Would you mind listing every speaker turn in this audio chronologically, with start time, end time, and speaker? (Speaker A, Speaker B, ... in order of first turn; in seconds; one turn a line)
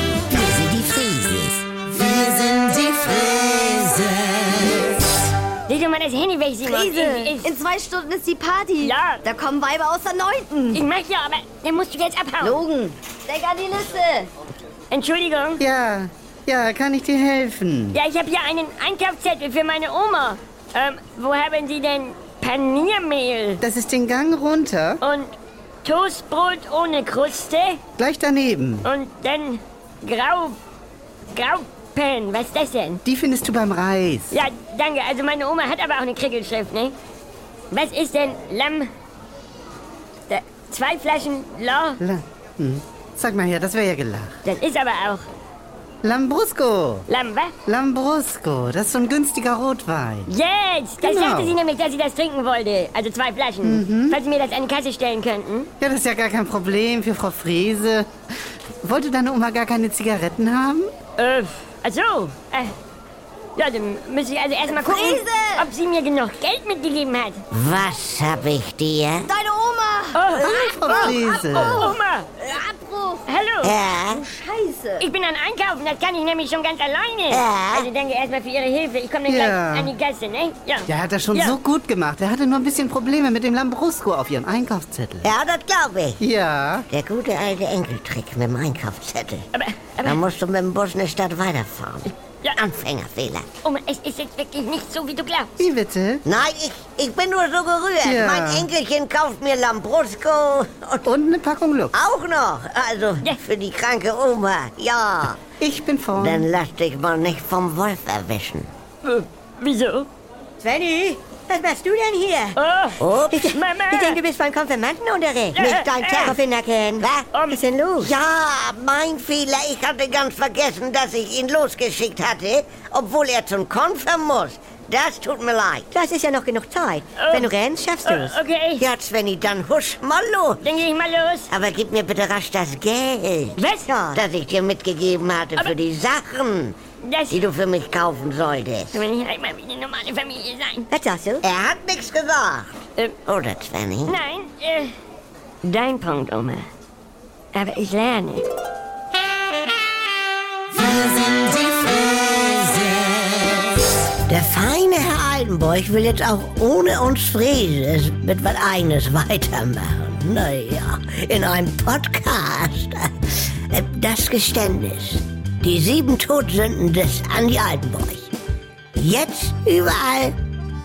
Speaker A: 0.3-1.6
Speaker B: 2.0-4.4
Speaker C: 5.7-7.5
Speaker D: 6.7-10.8
Speaker C: 8.8-9.2
Speaker C: 10.7-12.6
Speaker D: 12.4-14.3
Speaker C: 14.9-15.6
Speaker B: 15.6-18.0
Speaker C: 17.9-23.6
Speaker B: 23.6-25.0
Speaker C: 25.0-27.8
Speaker B: 28.0-28.9
Speaker C: 28.8-30.6
Speaker C: 31.3-33.0
Speaker B: 33.1-34.4
Speaker C: 34.3-37.0
Speaker C: 37.7-38.9
Speaker C: 40.3-42.0
Speaker B: 42.0-44.4
Speaker C: 44.5-45.3
Speaker B: 46.0-47.1
Speaker C: 47.1-47.5
Speaker B: 47.7-50.3
Speaker C: 50.3-55.7
Speaker B: 51.0-51.6
Speaker B: 53.6-54.2
Speaker B: 55.8-58.1
Speaker B: 58.8-60.9
Speaker C: 61.2-62.7
Speaker C: 63.6-67.5
Speaker D: 64.7-65.7
Speaker A: 67.5-69.3
Speaker D: 69.3-73.2
Speaker C: 70.1-72.5
Speaker B: 70.4-72.0
Speaker C: 73.3-73.8
Speaker A: 73.6-74.2
Speaker D: 74.2-75.1
Speaker C: 75.0-81.6
Speaker A: 77.3-77.9
Speaker B: 79.3-79.9
Speaker B: 80.9-85.3
Speaker A: 85.2-86.2
Speaker B: 86.2-86.9
Speaker A: 86.9-89.5
Speaker C: 89.5-90.2
Speaker A: 90.0-93.5
Speaker C: 93.6-95.5
Speaker B: 95.6-96.2
Speaker A: 96.3-101.1
Speaker B: 98.0-98.7
Speaker B: 101.0-101.9
Speaker A: 101.9-105.4
Speaker B: 105.6-106.5
Speaker A: 106.2-108.7
Speaker C: 109.0-110.1
Speaker E: 110.6-112.6
Speaker C: 112.5-114.2
Speaker A: 113.0-113.5
Speaker E: 113.3-118.1
Speaker C: 115.5-116.4
Speaker A: 115.7-116.4
Speaker A: 117.0-117.3
Speaker C: 117.3-117.6
Speaker A: 118.0-125.9
Speaker E: 125.9-128.4
Speaker C: 127.2-127.5
Speaker C: 128.0-128.8
Speaker A: 128.8-130.6
Speaker C: 130.6-131.5
Speaker A: 131.5-136.8
Speaker C: 133.6-133.9
Speaker E: 133.9-134.2
Speaker C: 137.0-137.5
Speaker A: 137.3-139.1
Speaker C: 138.9-140.9
Speaker E: 140.9-141.4
Speaker A: 141.4-144.2
Speaker C: 144.1-144.9
Speaker C: 145.6-146.7
Speaker C: 147.5-148.4
Speaker A: 151.0-153.4
Speaker A: 154.2-168.3
Speaker A: 169.0-170.3